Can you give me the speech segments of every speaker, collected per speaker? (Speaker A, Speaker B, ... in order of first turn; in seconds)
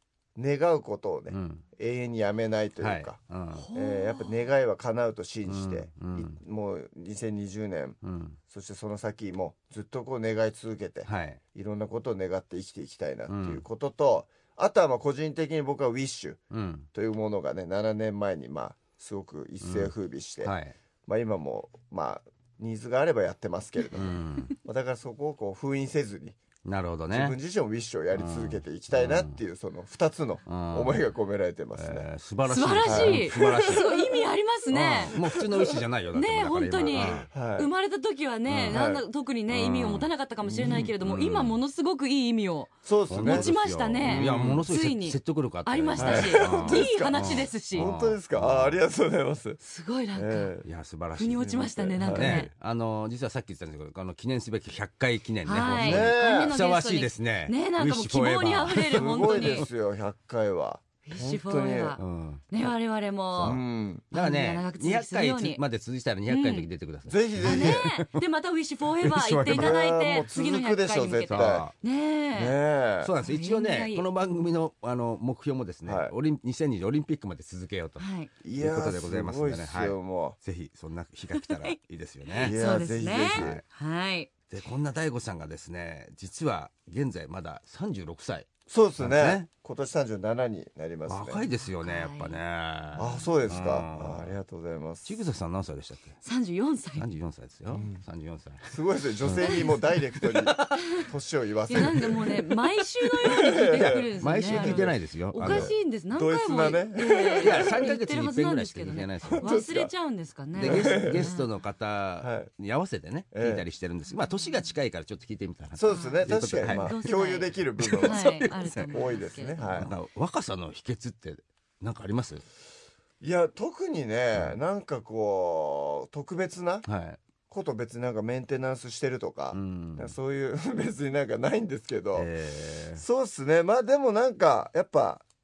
Speaker A: 0.3-3.2, 3.7-16.4, 16.9-20.5, 21.1-26.4, 27.1-32.0, 32.8-34.0, 34.7-35.8, 36.9-37.7, 38.7-39.0, 40.5-40.9, 42.8-43.5, 44.0-44.7, 46.0-49.6, 50.1-50.6, 51.6-52.5, 55.6-56.5, 58.9-62.0, 63.4-64.0, 67.1-67.9, 69.5-71.7, 72.3-73.1, 75.8-76.1, 78.4-80.4, 82.4-83.6, 88.7-91.4, 93.0-95.2, 97.7-98.0, 98.6-102.3, 103.2-107.7, 109.2-109.9, 110.6-111.3, 112.2-112.5, 113.3-113.6, 115.8-118.3, 118.9-119.9, 123.2-126.8, 127.5-132.3, 132.9-135.2
Speaker B: 1.3-1.6, 2.8-3.6, 5.5-6.4, 8.0-8.4, 11.0-11.4, 13.3-13.6, 16.5-16.9, 19.6-19.9, 20.4-20.7, 23.9-24.5, 26.6-27.4, 28.1-29.4, 30.5-31.0, 31.8-34.0, 34.7-37.3, 38.5-38.8, 39.5-40.1, 41.0-41.6, 43.1-48.8, 50.6-59.6, 62.0-62.5, 63.3-68.2, 69.0-69.8, 71.3-71.7, 73.0-78.0, 78.6-82.6, 83.3-83.6, 84.5-89.5, 91.1-94.3, 95.0-96.2, 97.0-101.0, 103.4-105.7, 107.4-109.6, 110.5-117.0, 117.8-118.9, 119.6-122.4, 126.8-127.2, 129.5-130.1, 132.1-133.0
Speaker C: 3.5-4.4, 32.5-35.2, 36.1-47.9, 49.6-50.5, 51.2-52.5, 55.4-59.7, 61.0-65.6, 66.3-66.7, 67.4-72.6, 73.2-74.0, 78.0-78.3, 81.3-81.8, 82.3-84.3, 91.8-92.4, 93.0-93.3, 96.2-97.0, 101.7-111.5, 115.9-119.8